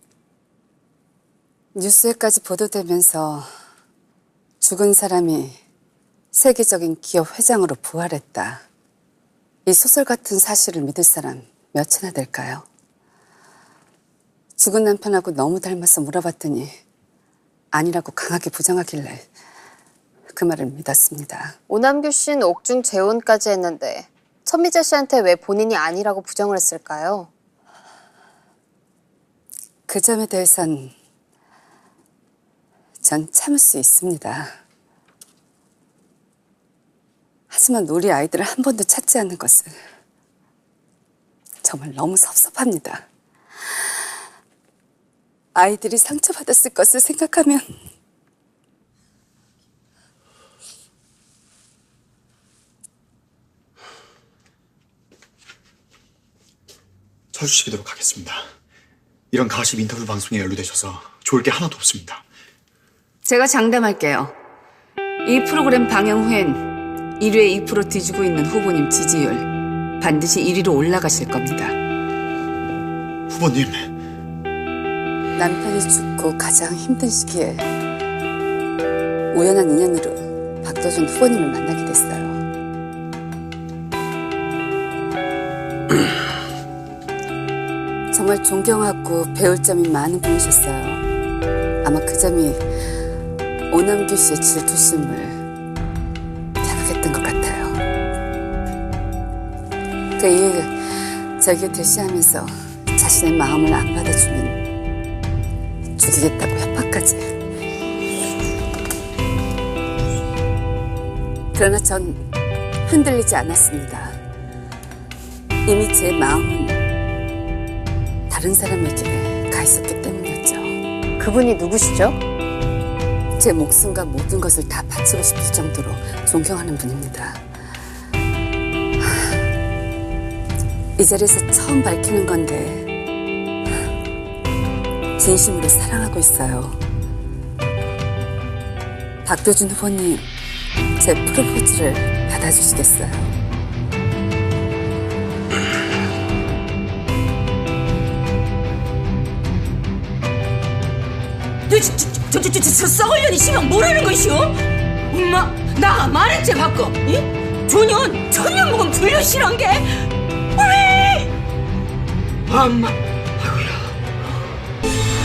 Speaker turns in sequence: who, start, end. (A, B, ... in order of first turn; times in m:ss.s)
0:01.7-0:03.5 A
0:04.6-0:05.6 A
0:06.3-0:08.6 A
0:09.6-0:12.6 A
0:14.6-0:16.7 A
0:17.7-0:19.3 A
0:20.3-0:21.6 A
0:21.7-0:27.3 B
0:29.9-0:30.9 A
0:33.0-0:34.6 A
0:37.5-0:39.8 A
0:41.6-0:43.1 A
0:45.5-0:47.6 A
0:57.3-0:58.4 C
0:59.3-1:02.2 C
1:03.2-1:04.3 A
1:05.2-1:11.8 A
1:13.3-1:13.9 C
1:15.4-1:17.7 A
1:19.3-1:22.4 A
1:28.1-1:31.0 A
1:31.8-1:32.6 A
1:33.7-1:35.4 A
1:36.6-1:37.8 A
1:40.2-1:44.6 A
1:46.0-1:47.2 A
1:51.5-1:52.2 A
1:52.8-1:54.2 A
1:55.6-1:56.8 A
1:58.3-2:00.8 A
2:01.2-2:02.2 B
2:03.4-2:07.4 A
2:11.0-2:12.9 A
2:15.2-2:16.8 A
2:19.2-2:20.2 A
2:21.0-2:23.3 A
2:31.7-2:34.5 D
2:35.1-2:39.9 D
2:40.6-2:41.3 D
2:42.5-2:43.8 D